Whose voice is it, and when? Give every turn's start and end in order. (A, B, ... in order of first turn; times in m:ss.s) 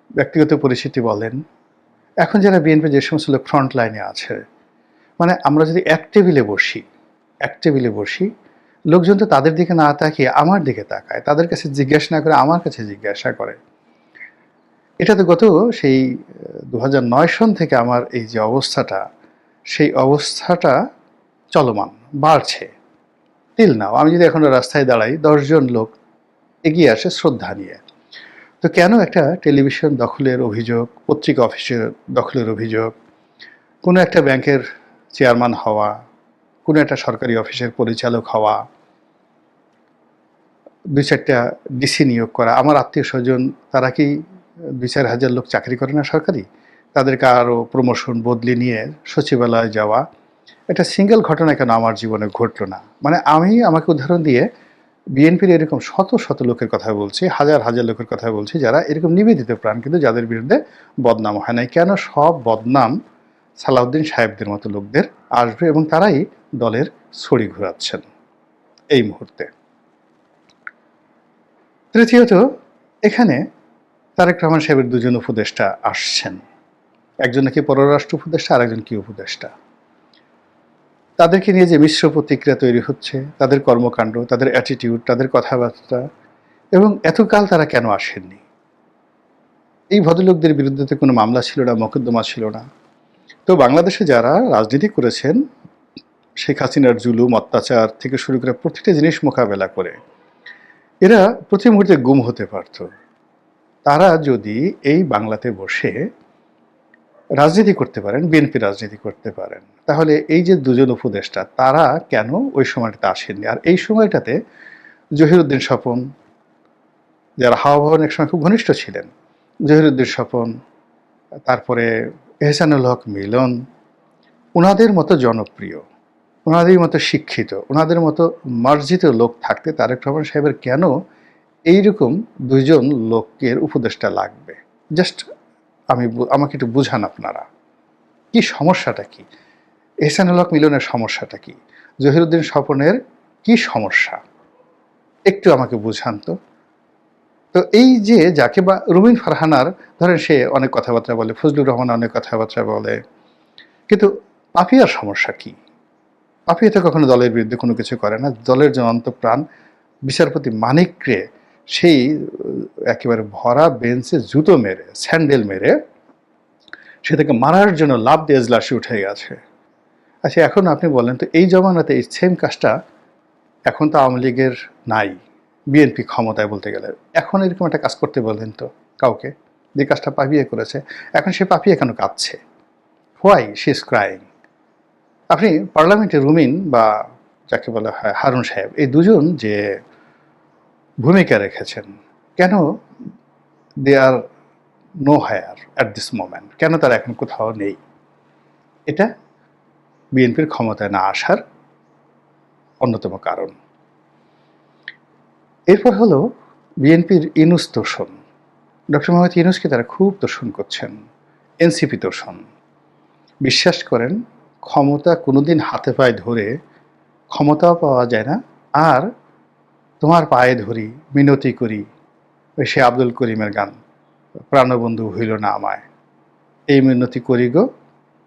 0:00.2-0:01.4 A
0:02.2-0:04.4 A
0:05.2-0:06.8 A
0:07.4-0:08.3 A
0:08.9-0:13.6 A
0:15.0-0:16.0 A
0:16.7-0:19.0 A
0:19.7-0:20.8 A
0:21.5-0:22.7 A
0:23.6-0:25.9 A
0:26.6-0:27.8 A
0:28.6-0:32.9 A
0:33.8-0:35.9 A
0:36.6-0:38.6 A
0:40.9-0:44.1 A
0:44.8-0:50.0 A
0:50.7-0:54.5 A
0:55.1-1:02.9 A
1:03.6-1:08.0 A
1:08.9-1:09.5 A
1:11.9-1:12.4 A
1:13.0-1:13.4 A
1:14.2-1:16.4 A
1:17.2-1:19.5 A
1:21.2-1:26.0 A
1:26.7-1:28.4 A
1:29.9-1:32.6 A
1:33.5-1:35.4 A
1:36.4-1:40.0 A
1:41.0-1:42.9 A
1:43.8-1:46.0 A
1:47.4-1:54.3 A
1:55.2-1:56.0 A
1:57.4-1:59.1 A
1:59.7-2:00.5 A
2:01.5-2:01.9 A
2:02.4-2:03.5 A
2:04.6-2:05.8 A
2:06.4-2:10.9 A
2:11.7-2:15.2 A
2:15.9-2:17.4 A
2:18.3-2:19.3 A
2:20.0-2:24.2 A
2:25.3-2:26.4 A
2:27.5-2:33.0 A
2:33.9-2:35.6 A
2:36.5-2:39.4 A
2:40.0-2:45.7 A
2:47.0-2:49.4 A
2:50.2-2:52.7 A
2:53.7-2:55.2 A
2:55.7-3:02.4 A
3:03.2-3:04.2 A
3:05.3-3:06.9 A
3:07.5-3:09.6 A
3:11.0-3:11.9 A
3:12.4-3:12.6 A
3:13.8-3:14.2 A
3:15.0-3:17.8 A
3:20.2-3:21.4 A
3:22.8-3:23.5 A
3:25.7-3:26.2 A
3:26.8-3:28.1 A
3:28.9-3:30.9 A
3:31.6-3:32.4 A
3:33.4-3:36.5 A
3:37.3-3:39.1 A
3:40.0-3:41.8 A
3:42.6-3:43.7 A
3:44.5-3:45.8 A
3:46.7-3:47.6 A